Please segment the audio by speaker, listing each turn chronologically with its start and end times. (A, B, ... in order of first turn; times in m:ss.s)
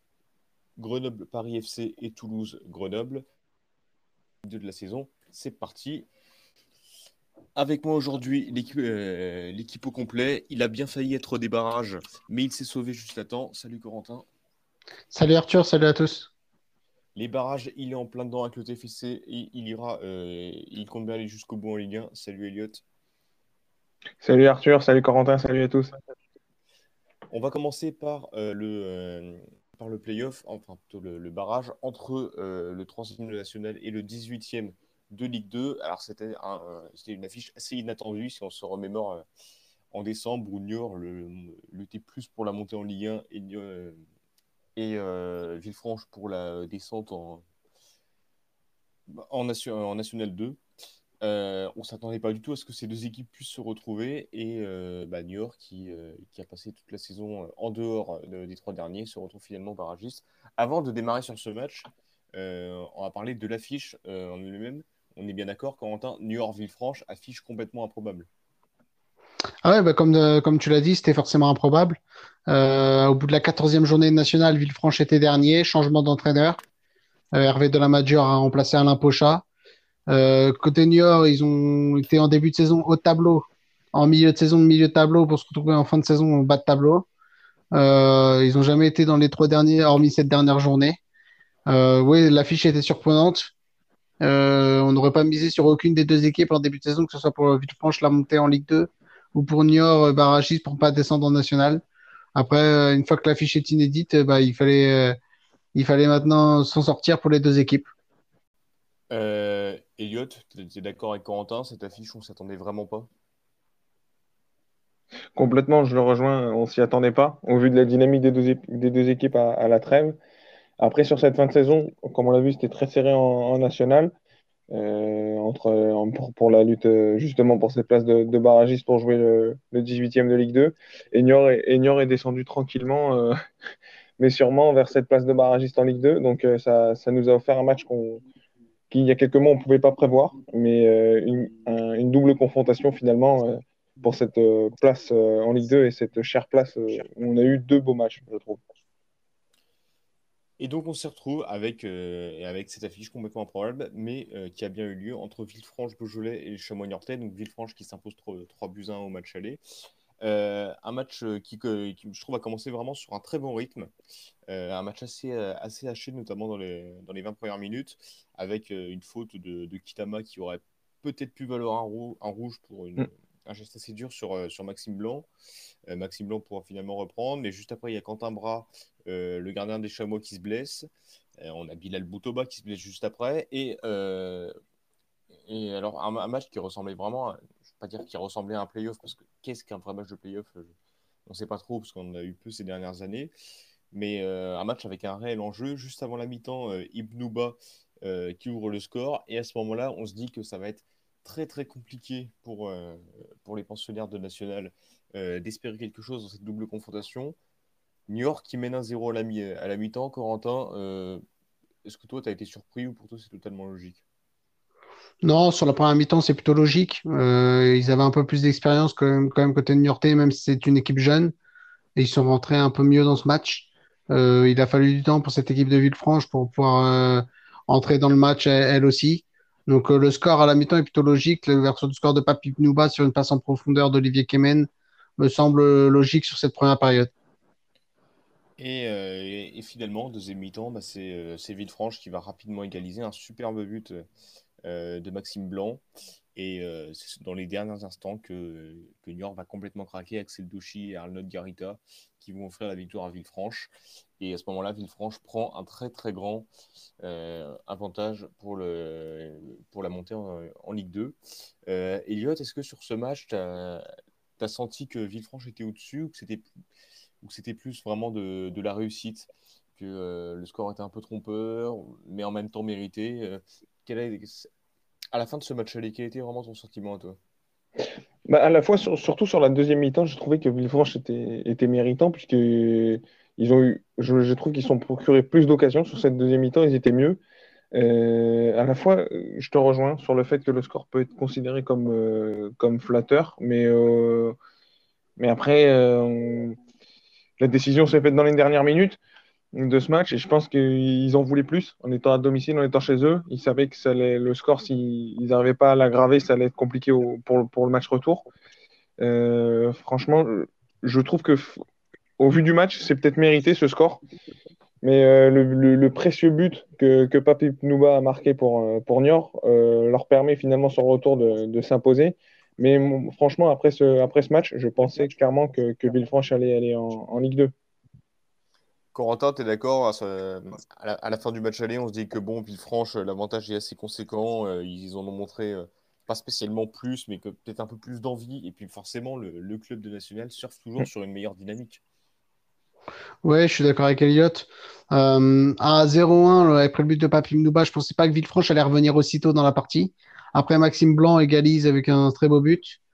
0:00.8-0:03.2 A
0:04.4-0:06.1 A
0:07.6-0:14.2 A
0:15.1-0:16.3 B
0:17.1-0:22.8 A
0:24.2-0:25.9 C
0:27.3-0:39.2 A
0:39.9-0:44.0 A
0:44.8-0:47.4 A
0:49.1-0:50.6 A
0:51.2-1:08.3 A
1:09.6-1:16.6 B
1:17.3-1:19.4 B
1:20.1-1:27.0 B
1:27.7-1:31.0 B
1:31.7-1:33.5 B
1:34.2-1:41.8 B
1:42.3-1:45.2 B
1:45.7-1:47.9 B
1:49.1-1:53.1 A
1:55.4-2:00.2 C
2:00.8-2:04.1 C
2:04.7-2:13.3 C
2:14.2-2:18.2 C
2:18.9-2:28.6 C
2:30.6-2:39.6 A
2:40.2-2:43.9 A
2:44.5-2:55.3 A
2:55.9-3:00.9 A
3:01.4-3:04.5 A
3:05.4-3:10.7 A
3:11.3-3:13.3 A
3:13.9-3:27.4 A
3:28.1-3:31.2 A
3:31.8-3:34.0 A
3:35.2-3:41.3 B
3:42.0-3:57.1 B
3:58.6-4:04.0 A
4:04.6-4:05.8 A
4:06.3-4:16.5 A
4:17.0-4:23.8 A
4:24.4-4:26.5 A
4:27.2-4:34.5 A
4:35.1-4:37.2 A
4:38.2-4:47.2 C
4:47.7-4:54.4 C
4:55.2-4:56.6 C
4:57.4-4:59.0 C
4:59.5-5:08.2 C
5:09.0-5:11.6 C
5:12.2-5:14.0 C
5:14.8-5:27.5 C
5:28.9-5:41.8 A
5:43.2-5:52.8 B